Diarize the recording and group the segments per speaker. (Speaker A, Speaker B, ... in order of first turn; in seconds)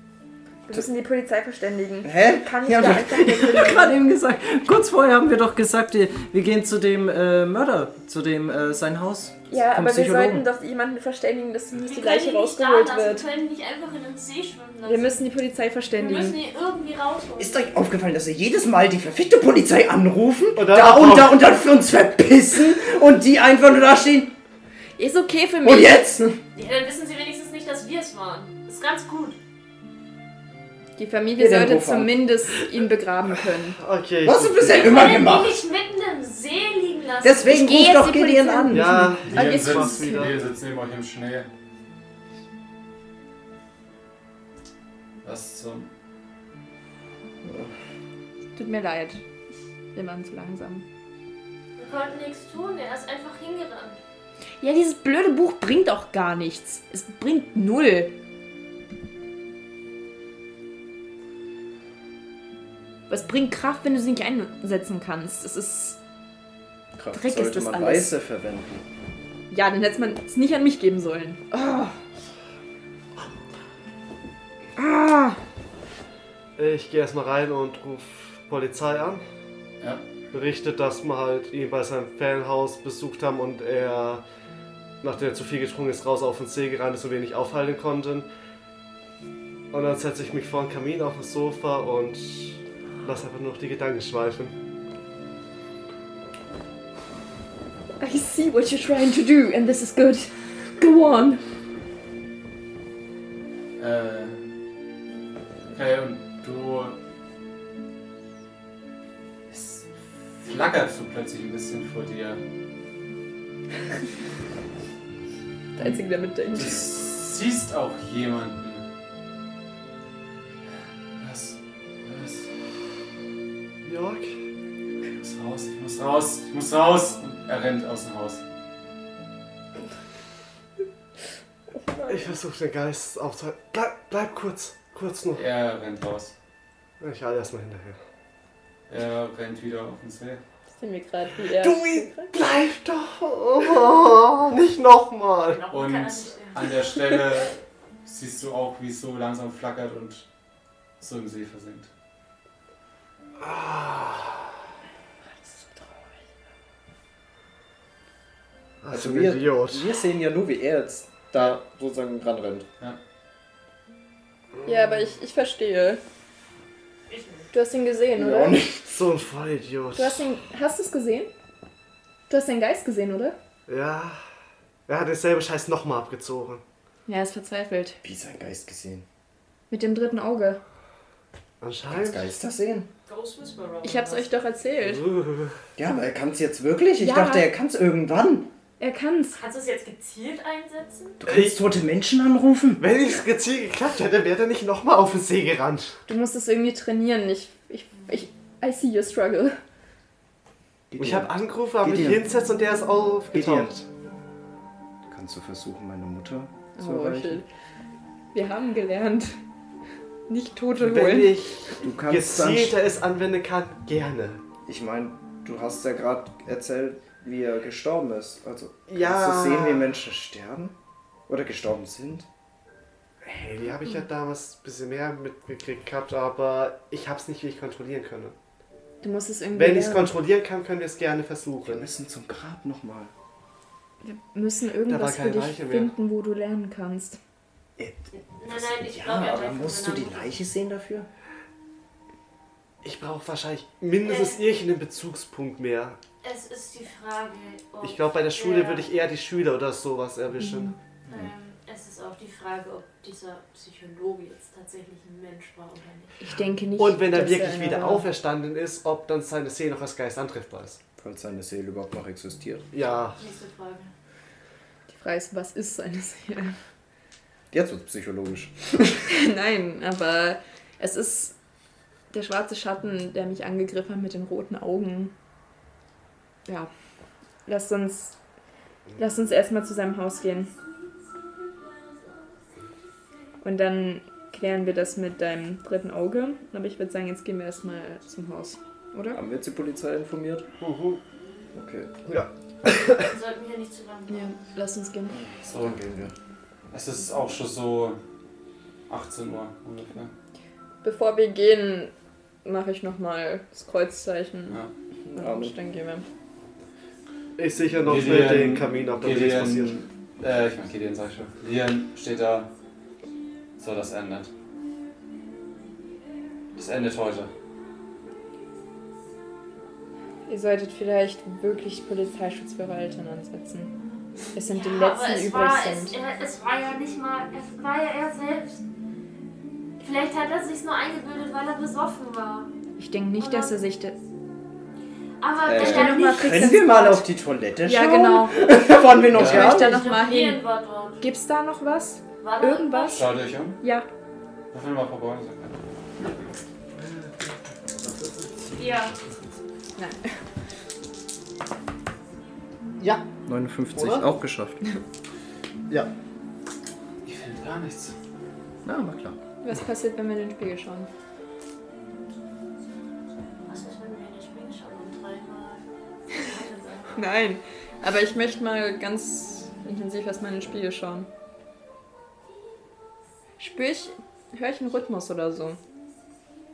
Speaker A: 0.7-4.0, 9.5-13.2, 14.8-16.4, 25.0-26.0, 31.0-33.8, 37.4-40.3, 48.5-49.2, 49.9-50.8, 54.6-58.1, 63.1-66.0, 67.1-68.1, 69.5-72.0, 74.8-75.4, 98.0-101.4, 115.8-116.8, 131.8-132.2, 140.7-142.3, 155.3-156.1, 164.6-166.0, 167.5-168.6, 169.9-171.3, 172.3-173.3, 177.1-178.0, 179.7-180.6, 183.8-185.0, 187.0-187.5, 188.8-189.4, 196.1-199.6, 206.8-207.4, 208.3-209.4, 210.3-211.3, 229.0-230.1, 234.0-237.2, 250.4-250.7, 256.2-258.1, 264.9-266.5, 269.1-271.3, 272.1-275.1, 277.4-278.1, 278.9-280.5, 283.4-289.2, 294.1-295.2, 300.8-301.9, 302.4-304.6, 305.1-306.1, 320.3-323.7, 324.3-325.9, 332.8-333.9, 335.5-337.1, 337.6-340.4, 341.0-343.0, 343.6-343.9, 349.8-350.1, 359.4-360.9, 366.9-371.1, 373.4-375.6
Speaker B: 2.0-10.5, 17.4-24.3, 25.6-26.4, 31.4-32.6, 34.2-35.6, 37.2-39.0, 47.4-47.7, 67.0-68.8, 158.9-162.7, 168.1-169.1, 178.0-179.1, 181.9-182.9, 185.8-188.5, 191.2-192.8, 200.9-202.2, 203.3-203.8, 205.1-207.4, 211.8-212.7, 214.7-220.7, 221.3-222.3, 231.6-233.1, 237.8-241.1, 261.0-262.6, 267.5-269.0, 289.1-290.5, 291.5-291.9, 295.5-296.1, 305.1-305.6, 335.4-339.8, 352.8-354.6, 358.6-359.2
Speaker C: 11.7-15.2, 16.0-17.6, 26.5-29.4, 34.7-37.5, 51.8-54.0, 145.4-146.7, 167.1-167.5, 183.1-184.3, 189.3-191.2, 238.2-240.4, 244.0-244.4, 246.2-248.9, 251.1-256.1, 263.2-263.9, 292.9-294.3, 324.5-328.6, 329.8-332.5, 333.2-333.6, 335.2-336.4, 339.4-341.0, 342.2-343.1, 348.6-348.9, 363.4-366.9
Speaker D: 20.6-21.4, 33.8-35.2, 38.7-40.4, 76.5-79.2, 80.3-84.2, 85.0-88.3, 89.7-94.5, 123.8-124.4, 132.1-135.4, 137.0-138.0, 141.6-145.6, 153.4-154.5, 158.8-159.9, 168.9-170.2, 173.7-174.2, 174.9-176.6, 181.6-182.3, 184.8-185.6, 191.2-191.6, 192.8-196.0, 201.0-203.8, 210.8-214.4, 218.9-219.9, 223.2-228.3, 229.5-231.9, 234.9-235.9, 242.8-246.0, 247.8-250.7, 256.8-260.8, 262.7-263.2, 290.6-291.0, 292.1-293.0, 307.4-309.8, 353.7-354.1
Speaker E: 39.2-41.5, 45.2-45.9, 103.8-104.4, 105.7-107.0, 109.5-112.4, 116.5-118.8, 121.2-122.5, 125.2-128.4, 135.3-136.3, 138.9-140.4, 145.7-150.2, 151.0-151.9, 295.4-295.8, 296.7-298.0, 298.9-300.1, 307.9-312.5, 313.6-314.3, 316.6-317.3, 339.1-339.6, 342.9-343.6, 344.5-345.6, 357.0-357.9